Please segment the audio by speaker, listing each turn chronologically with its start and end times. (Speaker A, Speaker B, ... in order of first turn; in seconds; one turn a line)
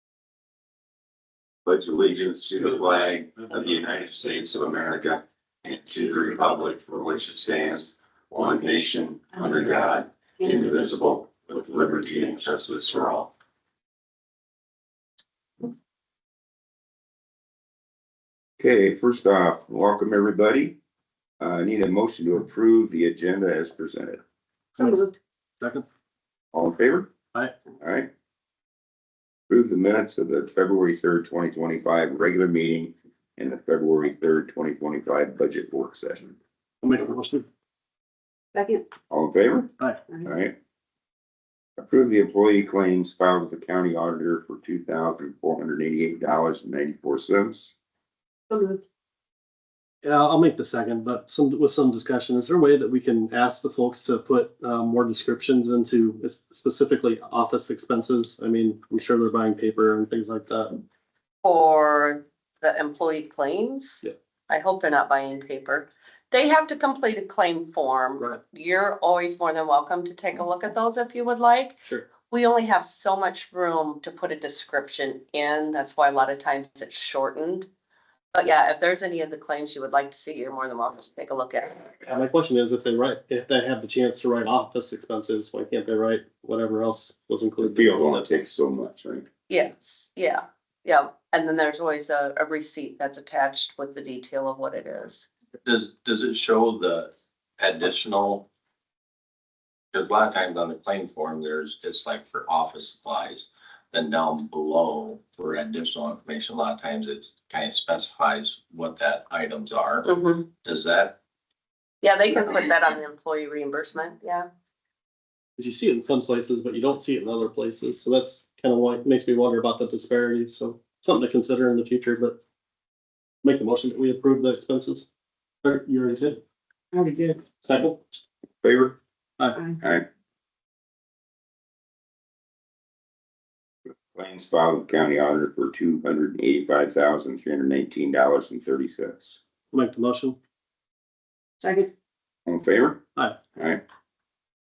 Speaker A: 1.6-13.3
Speaker A: 18.6-20.8
Speaker A: 21.4-24.2
Speaker B: 24.8-25.1
Speaker C: 25.6-25.9
Speaker A: 26.5-27.1
Speaker A: 27.8-28.1
Speaker A: 29.5-36.4
Speaker C: 36.8-37.5
Speaker B: 38.5-38.9
Speaker A: 39.1-39.7
Speaker A: 40.2-40.5
Speaker A: 41.8-47.7
Speaker B: 48.5-48.8
Speaker C: 50.0-60.8
Speaker D: 61.4-77.7
Speaker D: 78.3-81.9
Speaker C: 82.0-88.3
Speaker A: 87.6-89.3
Speaker D: 89.5-95.3
Speaker E: 95.7-98.5
Speaker E: 99.9-110.1
Speaker D: 110.0-110.5
Speaker E: 110.6-111.2
Speaker D: 112.0-114.5
Speaker C: 115.6-122.4
Speaker C: 123.4-125.1
Speaker C: 125.6-126.4
Speaker B: 126.9-127.6
Speaker C: 127.6-128.0
Speaker A: 128.6-129.0
Speaker A: 129.8-130.1
Speaker A: 134.1-139.4
Speaker C: 139.7-140.4
Speaker B: 141.6-141.9
Speaker A: 142.5-143.0
Speaker A: 143.6-143.8